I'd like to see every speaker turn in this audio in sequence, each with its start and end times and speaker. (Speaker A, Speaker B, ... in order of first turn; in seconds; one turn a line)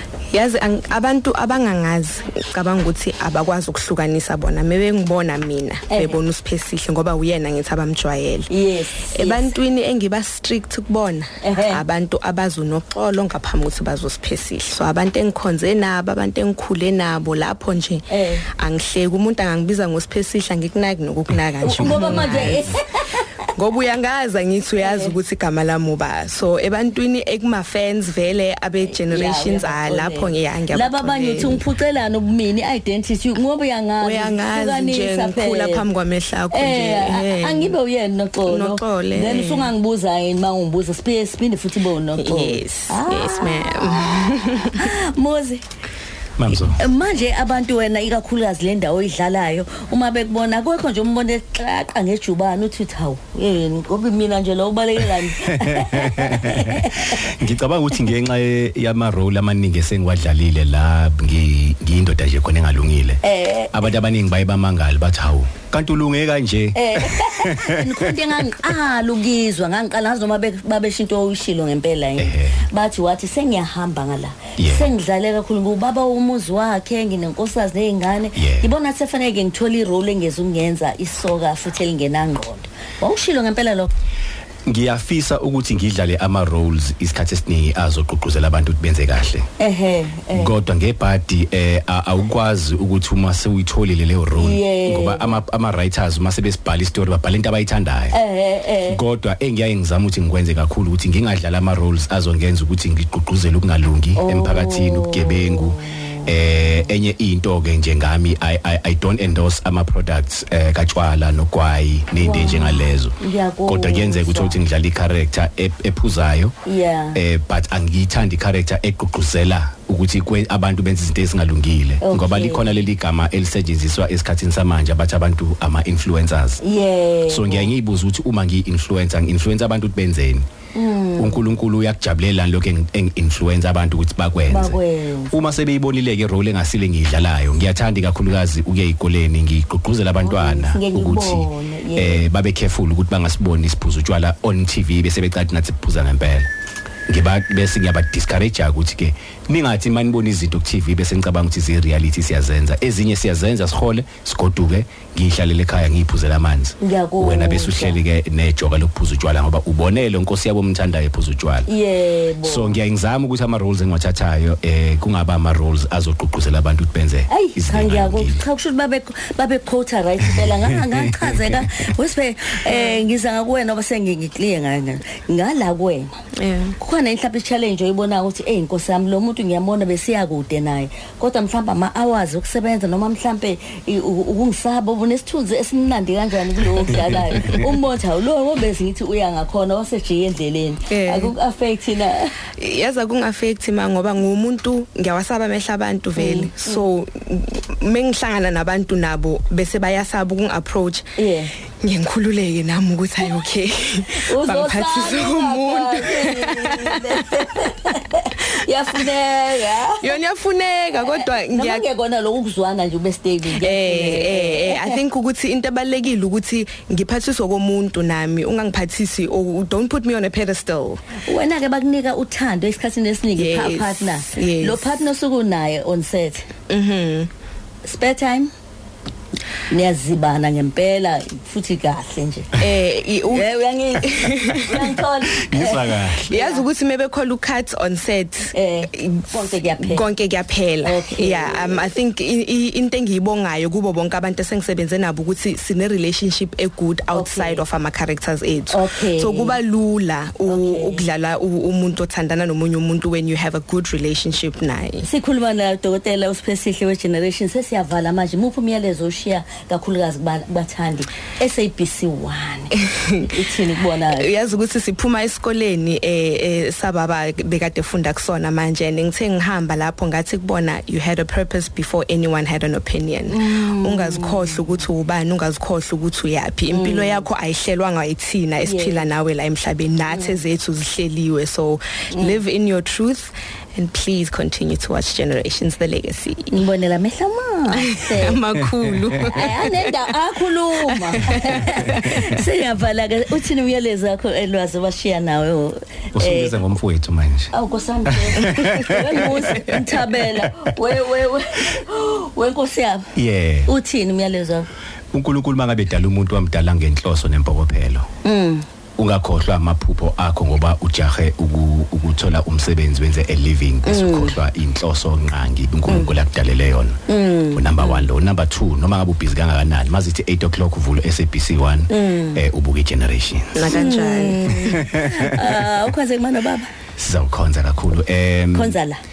Speaker A: 0.3-8.5
Speaker B: 5.9-6.2
Speaker B: 8.5-9.5
Speaker A: 9.1-18.0
Speaker B: 11.4-11.8
Speaker B: 18.1-18.4
Speaker A: 18.6-22.7
Speaker B: 21.6-23.5
Speaker C: 21.8-22.5
Speaker A: 23.6-31.6
Speaker B: 24.8-25.1
Speaker B: 28.8-35.9
Speaker A: 34.0-37.7
Speaker B: 36.5-45.6
Speaker A: 38.5-39.7
Speaker A: 42.1-44.9
Speaker C: 46.4-46.8
Speaker B: 46.6-57.4
Speaker C: 55.2-63.2
Speaker B: 63.2-63.9
Speaker C: 63.7-68.2
Speaker B: 66.7-83.9
Speaker C: 72.2-72.6
Speaker C: 74.6-74.9
Speaker C: 78.3-78.7
Speaker C: 84.7-89.5
Speaker B: 89.6-90.6
Speaker C: 90.3-98.2
Speaker B: 94.3-95.4
Speaker B: 98.1-99.0
Speaker C: 98.9-116.5
Speaker B: 104.2-106.8
Speaker B: 112.2-114.6
Speaker B: 116.7-117.2
Speaker C: 117.1-126.6
Speaker B: 122.0-122.8
Speaker B: 126.6-127.7
Speaker C: 127.3-130.4
Speaker B: 130.7-131.4
Speaker C: 131.2-134.8
Speaker B: 134.4-135.4
Speaker C: 135.3-146.5
Speaker B: 140.2-142.2
Speaker C: 147.1-161.7
Speaker B: 156.8-158.0
Speaker B: 161.7-162.7
Speaker C: 162.4-168.4
Speaker B: 167.3-176.1
Speaker C: 170.3-171.8
Speaker A: 172.7-173.0
Speaker A: 176.4-176.8
Speaker B: 176.8-192.3
Speaker A: 190.9-191.3
Speaker A: 192.6-201.1
Speaker B: 196.2-196.8
Speaker B: 201.2-201.5
Speaker A: 201.8-207.2
Speaker B: 204.2-210.2
Speaker A: 210.0-211.9
Speaker B: 211.0-215.0
Speaker A: 213.5-221.0
Speaker B: 221.2-226.5
Speaker A: 223.3-224.9
Speaker A: 226.7-227.3
Speaker B: 227.8-228.5
Speaker B: 229.7-232.6
Speaker A: 232.6-234.9
Speaker B: 233.3-236.6
Speaker C: 235.2-236.3
Speaker A: 236.3-255.1
Speaker B: 238.5-240.0
Speaker B: 240.8-241.8
Speaker B: 247.1-247.6
Speaker B: 248.7-249.6
Speaker B: 250.5-251.0
Speaker B: 255.0-264.3
Speaker A: 262.8-263.3
Speaker A: 264.1-286.5
Speaker B: 273.3-274.6
Speaker B: 276.7-277.3
Speaker B: 278.6-279.0
Speaker B: 280.1-280.4
Speaker B: 282.1-282.4
Speaker B: 286.5-288.4
Speaker A: 287.8-289.9
Speaker C: 288.9-289.3
Speaker B: 289.2-296.7
Speaker A: 290.9-292.2
Speaker C: 291.3-292.2
Speaker C: 296.1-297.5
Speaker B: 297.5-303.1
Speaker C: 298.1-300.7
Speaker C: 303.1-303.7
Speaker B: 303.6-304.7
Speaker C: 305.1-308.1
Speaker B: 308.2-308.6
Speaker C: 309.0-317.0
Speaker B: 313.8-314.4
Speaker B: 315.9-316.1
Speaker B: 317.1-318.1
Speaker C: 317.5-323.6
Speaker B: 321.9-322.4
Speaker A: 323.5-324.8
Speaker B: 323.7-326.7
Speaker C: 324.6-325.5
Speaker C: 327.0-328.8
Speaker B: 328.5-329.0